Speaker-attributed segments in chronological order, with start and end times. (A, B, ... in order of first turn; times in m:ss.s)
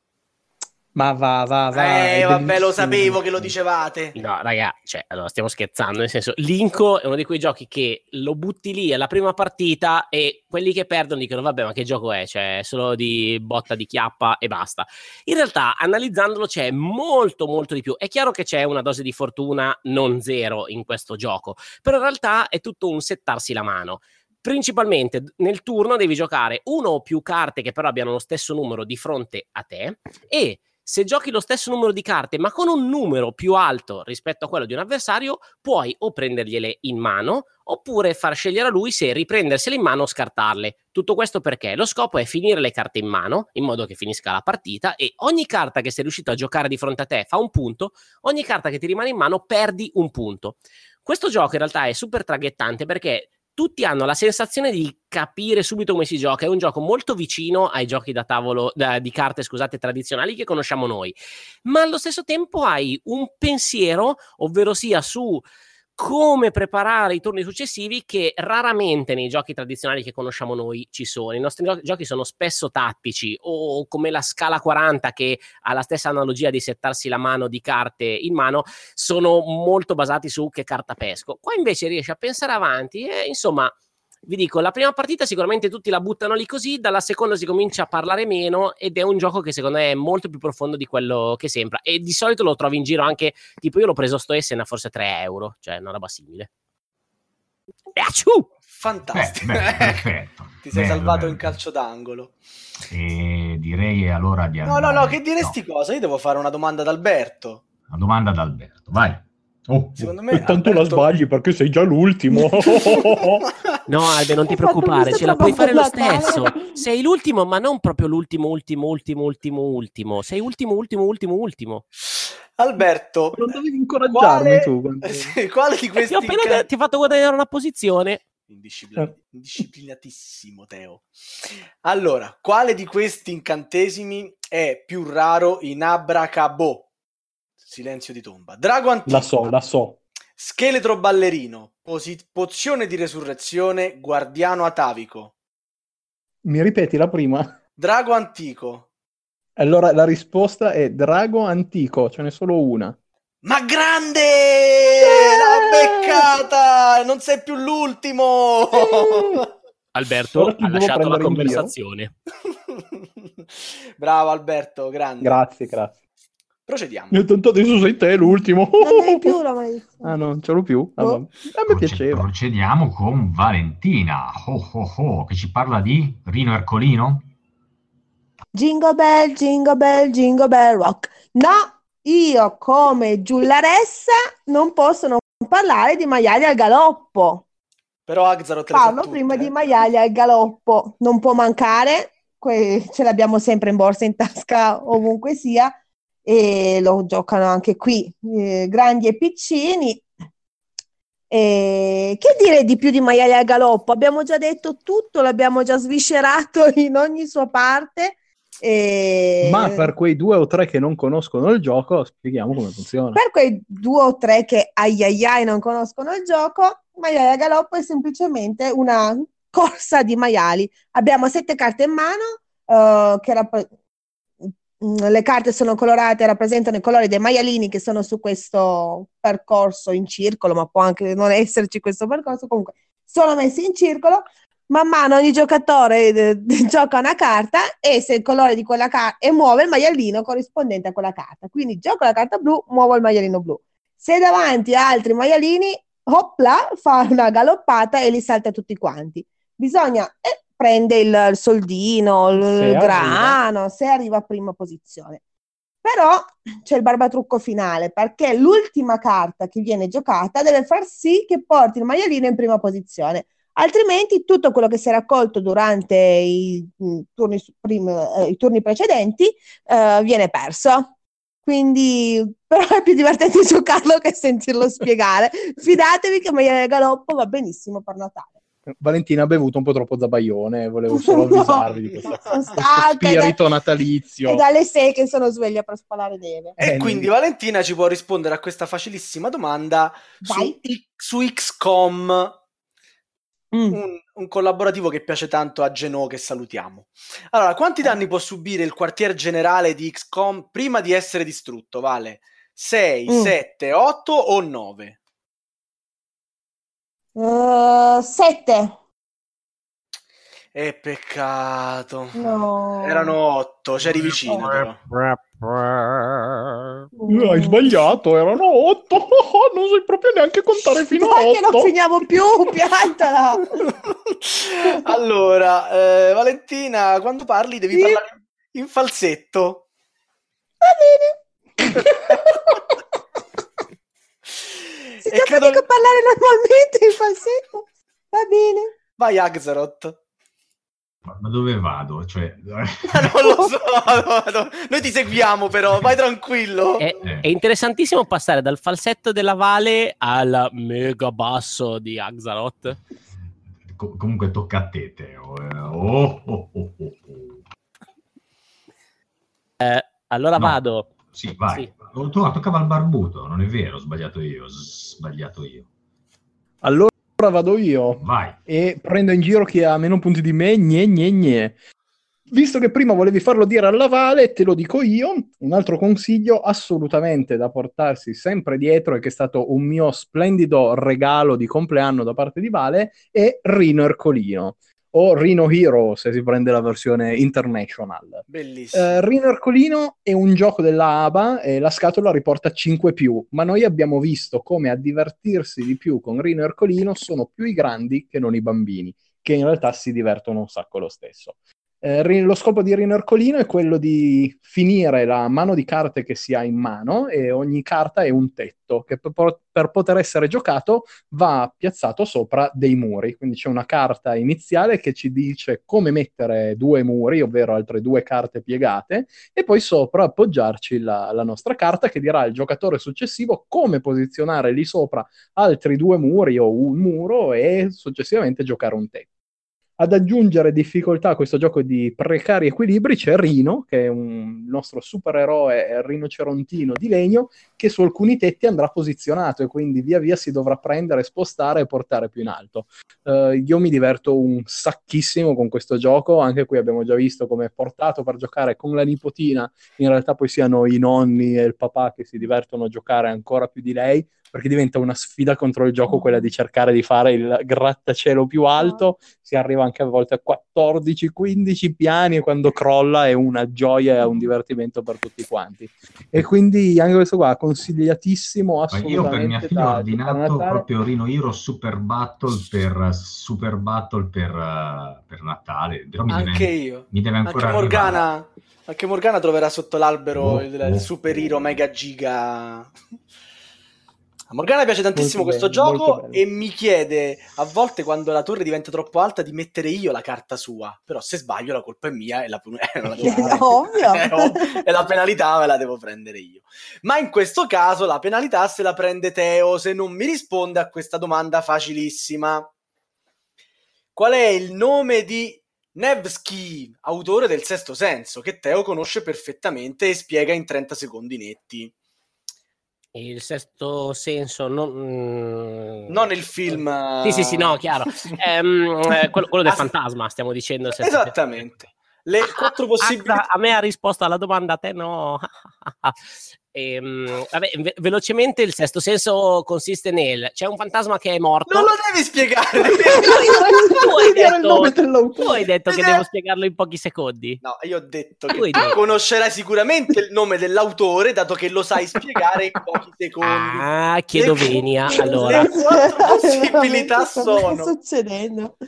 0:01.0-0:03.6 A
0:01.7-0:04.2 B
0:04.1-1:05.4 C
1:06.0-1:23.8 C
1:24.3-1:36.5 C
1:38.0-1:38.5 C
1:38.7-1:40.0 B
1:39.1-1:41.5 D
1:40.6-1:42.4 B
1:42.9-1:45.6 D
1:44.7-1:47.6 B
1:47.9-1:50.2 D
1:50.0-1:51.1 B
1:50.3-1:53.4 A
1:53.9-2:01.8 C
1:54.5-1:56.8 E
2:02.1-2:03.4 B
2:03.3-2:05.4 A
2:04.1-2:06.7 B
2:06.1-2:08.2 C
2:08.5-2:16.9 B
2:17.6-2:19.5 B
2:19.1-2:20.0 A
2:20.4-2:25.3 B
2:26.4-2:27.5 A
2:27.8-2:28.9 B
2:29.6-2:33.0 A
2:33.4-2:39.5 B
2:39.9-2:42.1 C
2:40.4-2:41.7 A
2:44.0-2:45.4 B
2:45.2-2:46.0 A
2:46.7-2:47.2 B
2:47.1-2:49.4 A
2:48.2-2:50.2 E
2:50.0-2:52.3 A
2:51.7-2:57.3 D
2:58.5-3:07.4 E
3:08.1-3:09.6 B
3:08.7-3:15.7 E
3:16.3-3:20.1 E
3:21.3-3:29.8 E
3:29.4-3:33.2 A
3:33.1-3:43.7 E
3:44.5-4:15.2 E
4:12.4-4:13.4 A
4:15.8-4:30.9 E
4:31.5-4:38.4 E
4:38.8-4:44.4 A
4:40.9-4:43.3 E
4:44.3-4:46.6 E
4:46.6-4:52.4 B
4:46.6-4:47.1 A
4:50.2-4:50.6 E
4:53.5-4:53.8 E
4:53.7-5:05.0 B
5:03.1-5:03.3 E
5:07.2-5:08.8 E
5:10.5-5:12.2 B
5:12.2-5:13.2 E
5:12.8-5:14.8 B
5:14.5-5:16.9 C
5:17.0-5:17.8 E
5:17.1-5:21.7 A
5:20.8-5:23.7 E
5:24.1-5:29.6 B
5:27.7-5:28.0 E
5:30.6-5:32.8 E
5:35.0-5:38.7 E
5:35.1-5:35.6 B
5:39.0-5:40.0 B
5:41.1-5:43.3 D
5:42.9-5:46.8 B
5:46.8-5:52.8 C
5:53.7-5:57.4 D
5:59.6-6:00.9 C
6:00.4-6:05.7 D
6:06.6-6:11.6 A
6:08.0-6:08.4 D
6:12.3-7:09.1 A
6:28.3-6:29.0 B
7:09.8-7:50.7 A
7:38.6-7:38.9 E
7:48.7-7:58.1 D
7:56.1-8:02.7 B
8:00.1-8:01.6 D
8:04.3-8:22.5 B
8:04.9-8:06.2 A
8:13.0-8:13.5 A
8:13.0-8:14.5 E
8:24.0-8:31.7 B
8:33.0-8:35.9 C
8:35.9-8:38.2 B
8:37.0-8:41.2 C
8:40.8-8:43.2 B
8:42.3-8:46.0 C
8:46.5-8:51.7 C
8:51.5-8:53.3 B
8:52.9-8:55.4 A
8:53.7-8:57.4 C
8:55.7-8:56.0 B
8:57.4-9:07.7 B
8:58.3-8:58.8 C
9:03.2-9:05.5 C
9:05.2-9:08.6 E